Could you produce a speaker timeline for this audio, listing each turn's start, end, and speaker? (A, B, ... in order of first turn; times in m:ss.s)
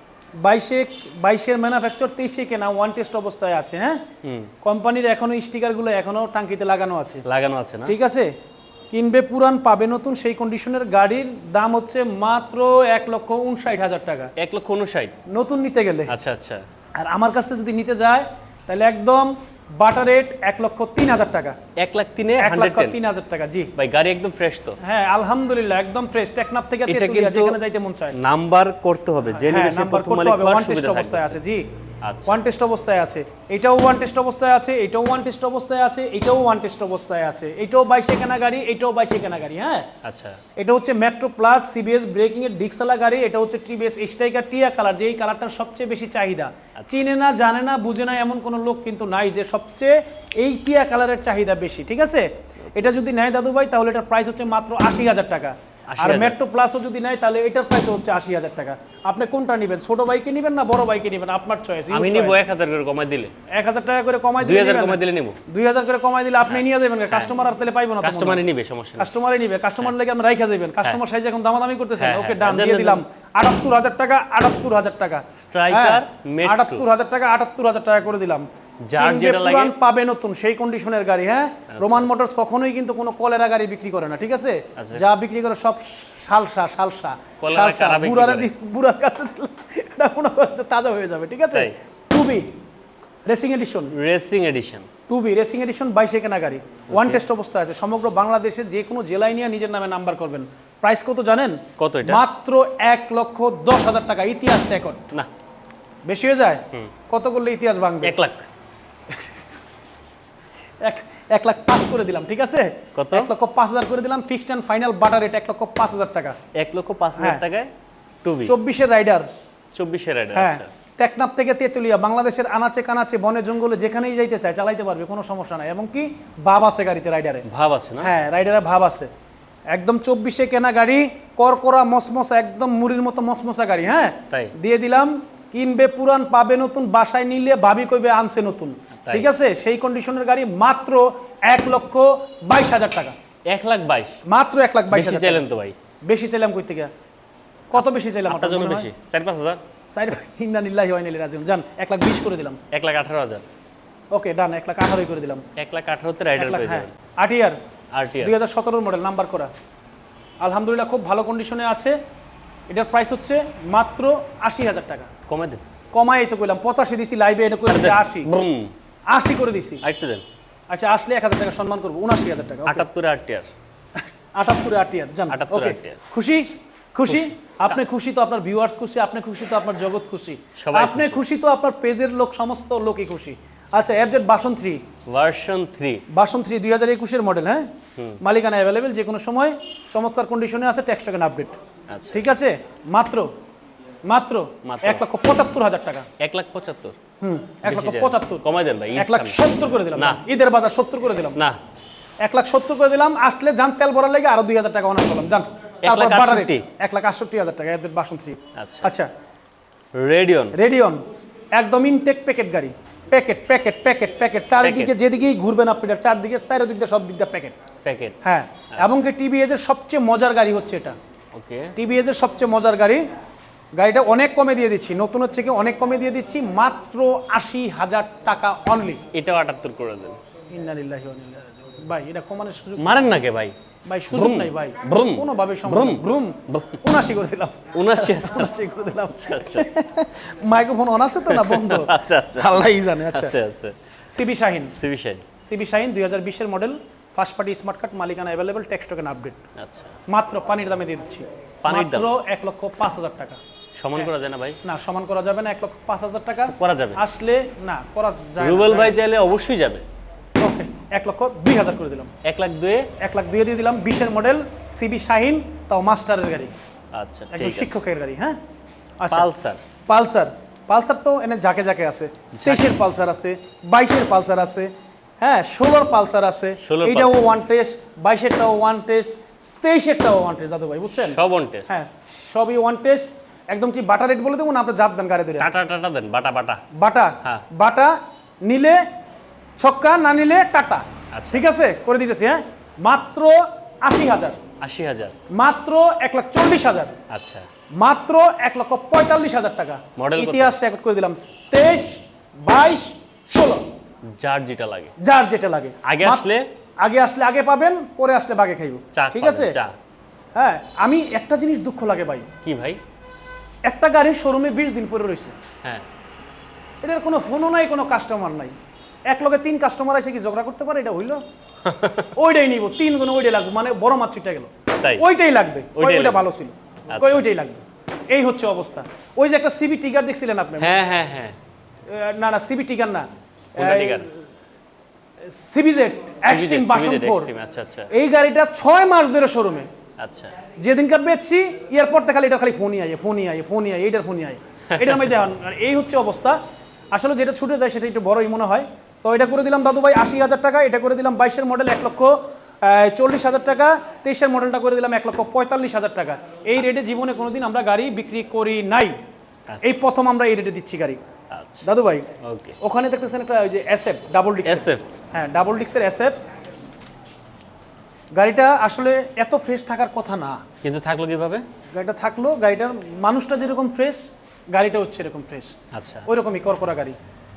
0:00.4-0:04.0 A
0:04.2-0:04.5 B
0:04.6-0:07.2 A
0:07.2-0:08.0 B
0:07.8-0:08.3 A
0:08.9-0:14.3 A
0:14.4-0:15.1 B
0:15.3-0:16.1 A
0:16.1-0:16.6 B
0:17.0-0:21.6 A
0:21.8-0:23.0 B
0:22.4-0:23.7 A
0:23.8-0:24.8 B
0:24.8-0:28.1 A
0:26.9-0:27.6 B
0:28.1-0:31.4 B
0:29.3-0:31.7 A
0:32.0-0:32.4 B
0:32.3-0:39.9 A
0:40.0-0:40.4 B
0:40.6-1:02.4 A
0:46.8-0:47.0 B
0:55.9-0:56.4 B
1:01.9-1:03.3 B
1:03.5-1:08.4 A
1:04.4-1:05.4 B
1:06.5-1:07.3 B
1:08.0-1:09.1 B
1:09.0-1:32.5 A
1:12.0-1:13.0 B
1:15.4-1:16.8 B
1:18.8-1:19.7 B
1:21.7-1:22.1 B
1:24.8-1:25.0 B
1:27.4-1:28.5 B
1:33.3-1:33.9 A
1:33.9-1:34.9 B
1:35.1-1:45.1 A
1:36.9-1:37.2 B
1:41.8-1:42.2 B
1:46.0-1:48.2 A
1:48.0-1:48.5 B
1:49.1-1:49.4 A
1:50.8-1:56.4 A
1:52.9-1:53.3 B
1:56.5-1:57.7 B
1:57.2-1:57.4 A
1:58.2-1:58.6 B
1:58.4-1:59.3 A
1:59.7-2:00.7 B
2:00.3-2:07.4 A
2:07.4-2:08.1 B
2:08.0-2:09.1 A
2:09.7-2:23.1 A
2:19.0-2:19.3 B
2:23.5-2:24.2 B
2:24.2-2:25.4 A
2:24.9-2:25.8 B
2:26.0-2:26.9 A
2:27.7-2:28.9 A
2:27.7-2:29.6 B
2:29.9-2:32.6 A
2:32.7-2:33.4 B
2:34.1-2:35.4 A
2:35.6-2:36.9 B
2:36.4-2:37.6 A
2:37.9-2:38.3 B
2:38.2-2:39.5 A
2:40.4-2:42.0 A
2:42.7-2:45.1 A
2:45.3-2:45.6 B
2:45.9-2:48.3 A
2:47.7-2:48.7 B
2:49.1-2:49.8 A
2:49.8-2:50.2 B
2:50.7-2:52.8 A
2:52.6-2:53.5 B
2:54.0-3:04.8 A
2:55.3-2:56.0 B
2:57.0-2:57.7 B
3:00.6-3:01.2 B
3:05.1-3:06.0 B
3:06.1-3:07.7 A
3:08.2-3:11.5 A
3:11.9-3:12.3 B
3:12.1-3:13.3 A
3:14.1-3:16.1 A
3:14.6-3:15.0 B
3:16.2-3:17.0 B
3:17.2-3:18.4 A
3:17.6-3:20.2 B
3:18.9-3:21.4 A
3:22.2-3:29.1 A
3:25.8-3:26.6 B
3:28.5-3:28.9 B
3:29.9-3:30.6 B
3:30.5-3:31.0 A
3:31.5-3:37.6 A
3:34.6-3:34.9 B
3:37.8-3:38.2 B
3:38.2-3:40.9 A
3:38.7-3:39.0 B
3:41.3-3:41.8 B
3:41.8-3:43.0 A
3:43.8-3:49.0 A
3:49.1-3:50.2 B
3:50.5-3:53.0 A
3:52.8-3:53.5 B
3:53.8-4:03.4 A
3:54.1-3:56.8 B
3:57.7-3:59.7 B
4:01.3-4:03.8 B
4:04.1-4:04.8 A
4:04.8-4:05.2 B
4:05.4-4:09.4 A
4:09.6-4:09.9 B
4:10.1-4:13.4 A
4:11.6-4:12.1 B
4:13.8-4:14.6 B
4:14.6-4:19.0 A
4:16.5-4:17.0 B
4:18.4-4:19.8 B
4:20.4-4:22.1 A
4:22.2-4:22.9 B
4:23.0-4:26.5 A
4:26.9-4:27.8 B
4:27.3-4:28.4 A
4:29.0-4:29.3 A
4:29.1-4:29.6 B
4:29.9-4:45.5 A
4:32.3-4:32.7 B
4:36.6-4:37.2 B
4:41.0-4:41.7 B
4:45.4-4:46.6 B
4:46.7-4:48.8 A
4:49.6-4:54.4 A
4:51.1-4:51.4 B
4:54.6-4:55.1 B
4:55.3-4:56.9 A
4:57.1-4:57.4 B
4:57.7-5:03.6 A
5:00.0-5:00.6 B
5:04.1-5:04.9 B
5:05.0-5:06.2 A
5:05.8-5:06.5 B
5:06.8-5:09.5 A
5:08.9-5:09.7 B
5:10.3-5:12.3 A
5:12.4-5:12.8 B
5:13.6-5:15.4 A
5:16.8-5:18.5 A
5:19.1-5:21.2 A
5:21.6-5:22.1 B
5:22.1-5:30.8 A
5:25.8-5:26.2 B
5:26.9-5:27.3 B
5:30.6-5:31.3 B
5:31.9-5:34.2 A
5:33.5-5:34.1 B
5:35.2-5:37.3 A
5:36.2-5:37.9 B
5:37.9-5:39.7 A
5:40.0-5:40.3 B
5:40.6-5:46.4 A
5:44.8-5:45.0 B
5:46.9-5:59.0 A
5:59.5-5:59.7 B
5:59.6-6:01.0 A
6:01.3-6:01.6 B
6:01.6-6:02.1 A
6:02.2-6:02.6 B
6:02.6-6:06.2 A
6:04.4-6:04.8 B
6:08.1-6:10.4 A
6:10.6-6:11.4 B
6:11.7-6:17.0 A
6:15.7-6:16.1 B